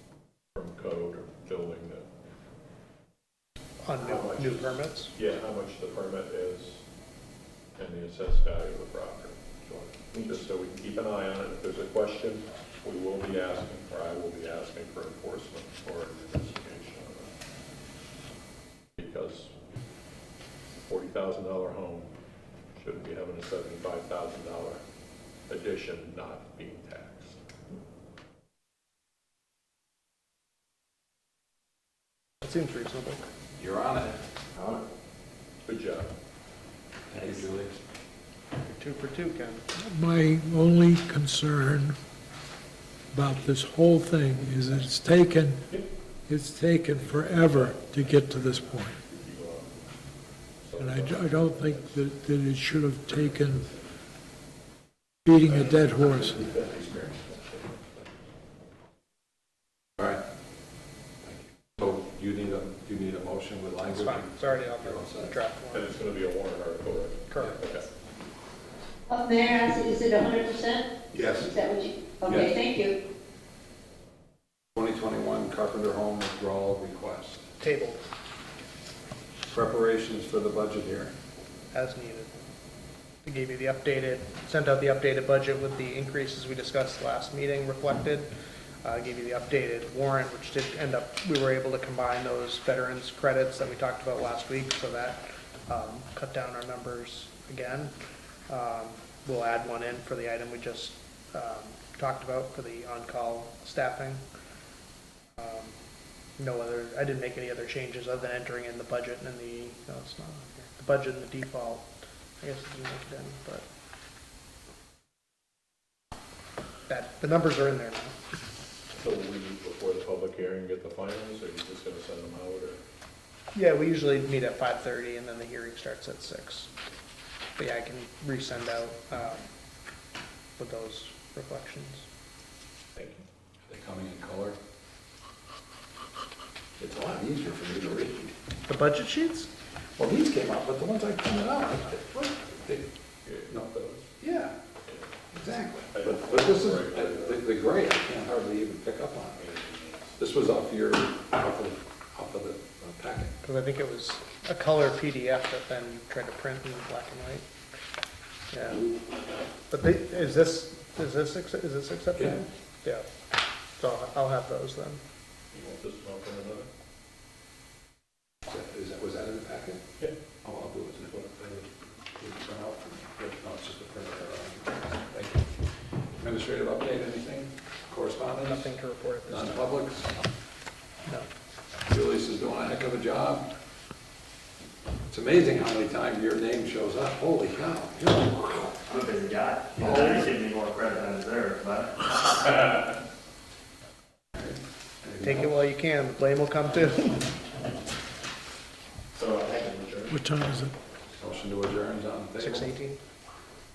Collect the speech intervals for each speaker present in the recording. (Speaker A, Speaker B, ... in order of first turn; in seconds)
Speaker A: 0.5-2.0, 4.0-6.8, 7.8-17.3, 19.0-19.5, 20.8-22.2, 22.8-24.8, 25.5-27.4, 35.6-36.1, 47.0-49.8, 50.6-52.0, 53.1-53.9, 55.4-58.0, 65.7-67.9, 118.9-122.8, 132.9-133.2, 143.2-144.1, 145.9-147.5, 149.3-150.2, 165.5-166.7, 199.1-200.2
Speaker B: 3.8-5.1, 32.4-33.2, 38.6-39.7, 63.9-65.9, 67.3-67.6, 77.6-78.0, 81.7-82.3, 83.2-88.3, 88.8-97.9, 98.5-104.2, 105.4-105.8, 106.4-111.9, 112.4-113.7, 116.9-118.1, 123.5-126.7, 127.6-129.5, 130.6-132.1, 138.7-139.5, 153.4-157.4, 158.5-158.9, 159.7-163.1, 163.8-165.0, 178.4-179.7, 195.2-197.3, 202.4-203.0
Speaker C: 33.6-34.2, 37.1-37.8, 61.7-65.3, 71.1-71.5, 72.3-72.6, 74.7-77.5, 79.5-81.1, 133.7-134.6, 136.8-138.3, 140.0-142.8, 144.2-144.5, 145.3-149.4, 150.2-153.3, 168.4-169.8, 170.4-175.6, 176.2-178.7, 179.2-180.2, 181.9-183.5, 185.1-188.8, 189.8-190.3, 194.3-195.6, 201.1-202.7
Speaker D: 39.7-42.0, 43.1-45.6, 46.3-49.0, 50.8-53.7, 55.2-56.4, 200.1-200.7
Speaker E: 69.1-73.0
Speaker F: 188.9-191.9